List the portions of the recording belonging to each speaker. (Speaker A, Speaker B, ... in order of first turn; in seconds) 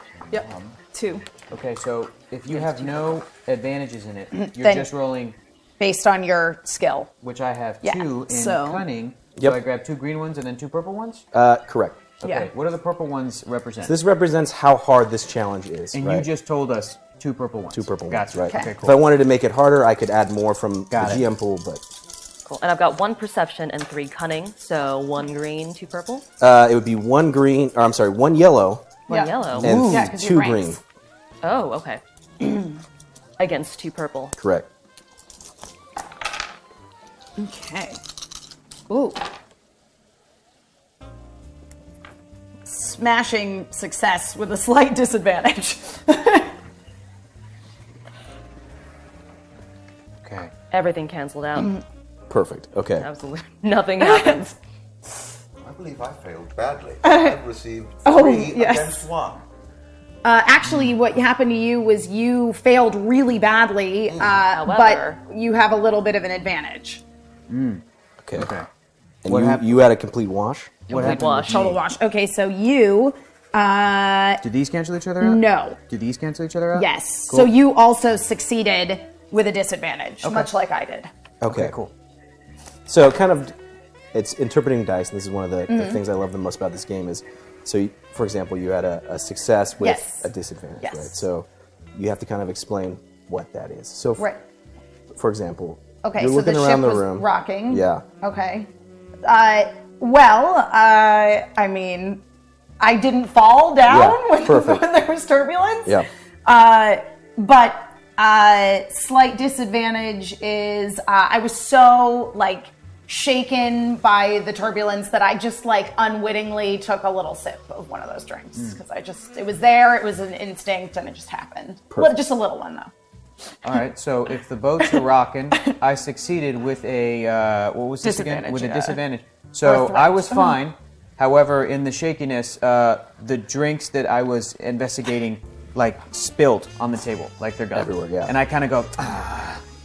Speaker A: 0.3-0.8, 55.6-59.4, 64.1-64.4
Speaker B: 0.3-1.2, 4.3-4.9, 5.8-7.1, 7.8-8.8, 12.2-12.5, 29.1-30.8, 37.4-38.0, 38.9-39.2, 42.6-46.5, 54.0-54.4, 57.0-57.4, 58.0-59.0, 60.2-67.0, 71.4-74.4, 75.2-75.8, 76.7-81.1, 85.7-86.0, 89.8-90.3, 90.8-91.2, 96.0-98.7, 99.2-102.2, 102.8-122.9, 128.0-129.0, 129.6-130.6
Speaker C: 1.5-5.4, 7.2-11.2, 12.2-13.9, 15.9-19.0, 20.9-21.2, 29.5-30.1, 50.2-50.5, 67.5-67.8, 68.4-68.7, 69.3-69.8, 70.9-71.6, 74.4-77.5, 80.2-80.5, 81.5-81.9, 123.6-139.6
Speaker D: 11.3-12.1, 13.8-16.3, 17.7-21.8, 26.4-28.9, 29.6-30.8, 34.4-34.7, 52.3-53.1, 68.2-68.5, 69.2-71.7, 81.4-81.8, 82.9-83.5, 84.1-94.3, 95.1-98.0, 103.8-104.8, 137.7-138.3
Speaker E: 22.4-26.2, 29.1-29.7, 31.4-32.0, 33.4-34.3, 50.7-51.7, 53.0-54.6, 64.5-65.2, 70.9-71.7